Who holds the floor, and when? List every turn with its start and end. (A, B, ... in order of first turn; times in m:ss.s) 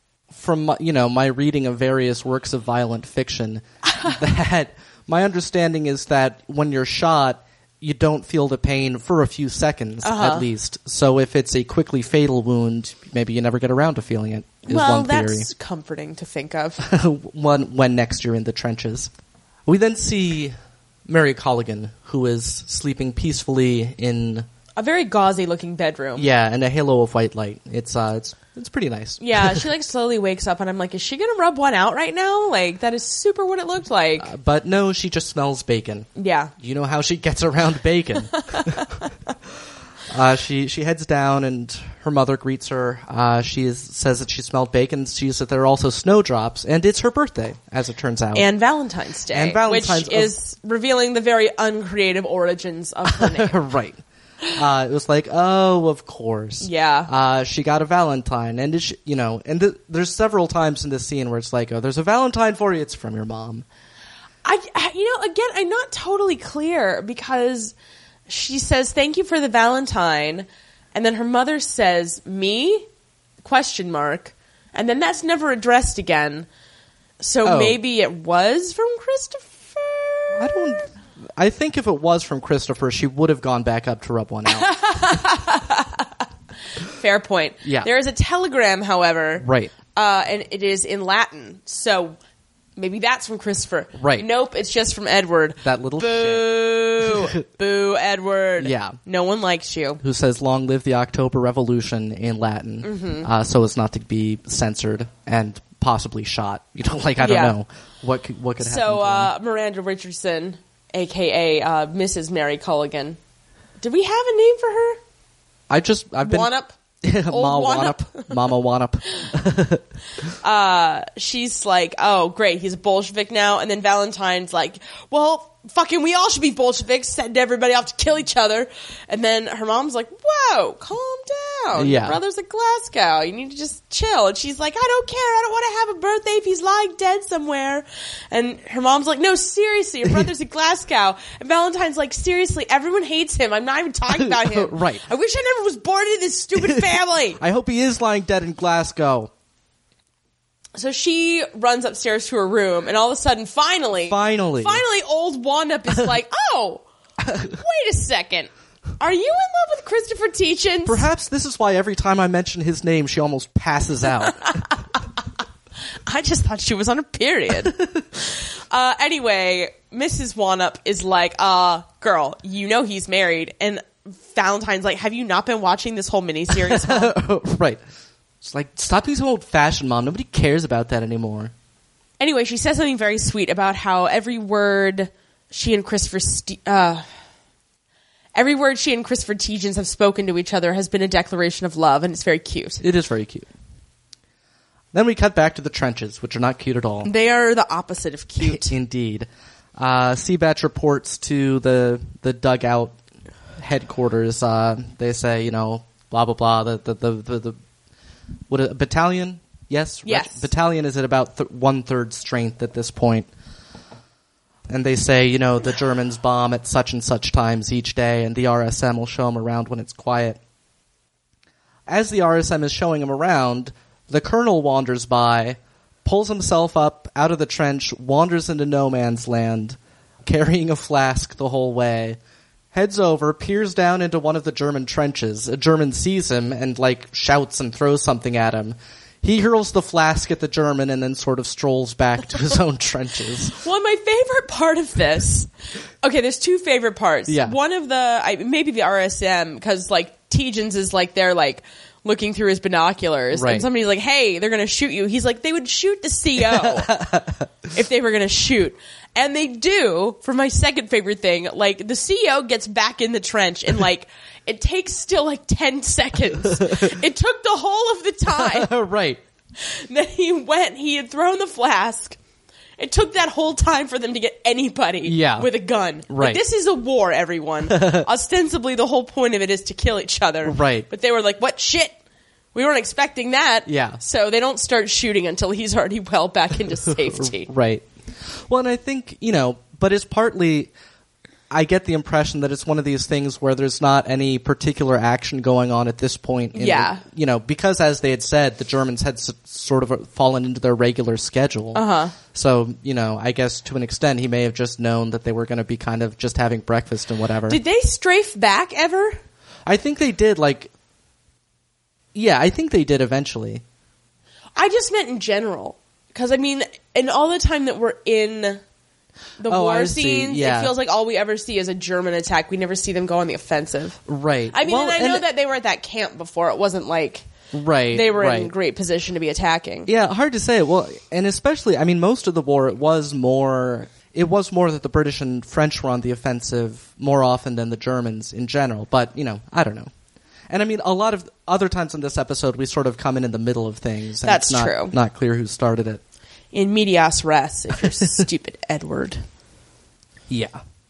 0:00.3-0:15.5 A
0:03.9-0:04.2 B
0:10.0-0:10.4 B
0:14.7-0:16.8 B
0:16.8-0:19.1 A
0:19.6-0:20.5 A
0:21.1-0:24.4 A
0:24.8-0:26.3 B
0:26.2-0:29.7 A
0:29.2-0:34.3 B
0:34.2-0:36.1 A
0:36.2-0:36.5 B
0:36.6-0:39.0 A
0:38.4-0:38.8 B
0:40.1-0:48.5 A
0:48.3-0:53.6 B
0:49.3-0:50.3 A
0:53.1-0:54.0 A
0:54.5-1:03.6 A
0:56.6-0:57.1 B
1:04.4-1:07.7 B
1:08.3-1:12.9 B
1:13.4-1:16.5 B
1:17.2-1:20.9 B
1:17.4-1:17.8 A
1:20.3-1:25.2 A
1:24.4-1:26.1 B
1:26.9-1:32.2 B
1:27.6-1:27.9 A
1:29.4-1:29.7 A
1:32.8-1:40.0 B
1:34.0-1:34.3 A
1:35.6-1:37.2 A
1:38.6-1:39.0 A
1:40.0-1:49.3 A
1:42.8-1:43.3 B
1:47.2-1:47.5 B
1:48.6-1:53.2 B
1:53.8-1:55.0 B
1:55.7-1:56.5 A
1:56.2-1:56.7 B
1:57.0-1:59.8 A
1:57.3-1:58.4 B
2:00.4-2:27.4 B
2:11.7-2:12.2 A
2:24.1-2:25.0 A
2:26.6-2:29.3 A
2:30.8-2:41.1 B
2:34.1-2:34.8 A
2:37.2-2:37.5 A
2:40.8-2:44.6 A
2:46.0-2:57.1 B
2:56.5-2:57.8 A
2:58.4-3:01.5 A
3:02.2-3:07.0 B
3:08.3-3:12.8 B
3:12.8-3:13.5 A
3:14.9-3:17.1 A
3:17.0-3:18.7 B
3:18.4-3:23.0 A
3:23.6-3:27.6 A
3:28.5-3:33.3 A
3:30.0-3:30.4 B
3:34.7-3:40.4 A
3:41.9-3:52.2 A
3:52.7-4:03.6 A
4:03.5-4:17.0 B
4:07.3-4:07.6 A
4:13.3-4:13.6 A
4:16.4-4:17.5 A
4:17.7-4:28.7 B
4:26.4-4:26.9 A
4:28.3-4:29.2 A
4:29.6-4:32.2 B
4:32.8-4:42.0 B
4:35.0-4:35.5 A
4:36.1-4:36.4 A
4:37.7-4:38.0 A
4:40.4-4:40.9 A
4:42.5-4:47.5 B
4:43.7-4:44.0 A
4:46.9-4:50.7 A
4:51.5-5:07.6 A
4:56.5-4:57.0 B
5:01.7-5:02.1 B
5:07.5-5:09.2 B
5:09.6-5:10.7 A
5:12.1-5:13.6 A
5:14.6-5:18.6 B
5:19.4-5:27.3 B
5:19.5-5:20.7 A
5:24.1-5:25.2 A
5:27.5-5:28.5 A
5:27.9-5:29.9 B
5:29.8-5:39.9 A
5:40.5-5:46.0 A
5:44.2-5:44.9 B
5:46.5-5:49.2 B
5:50.3-5:50.6 A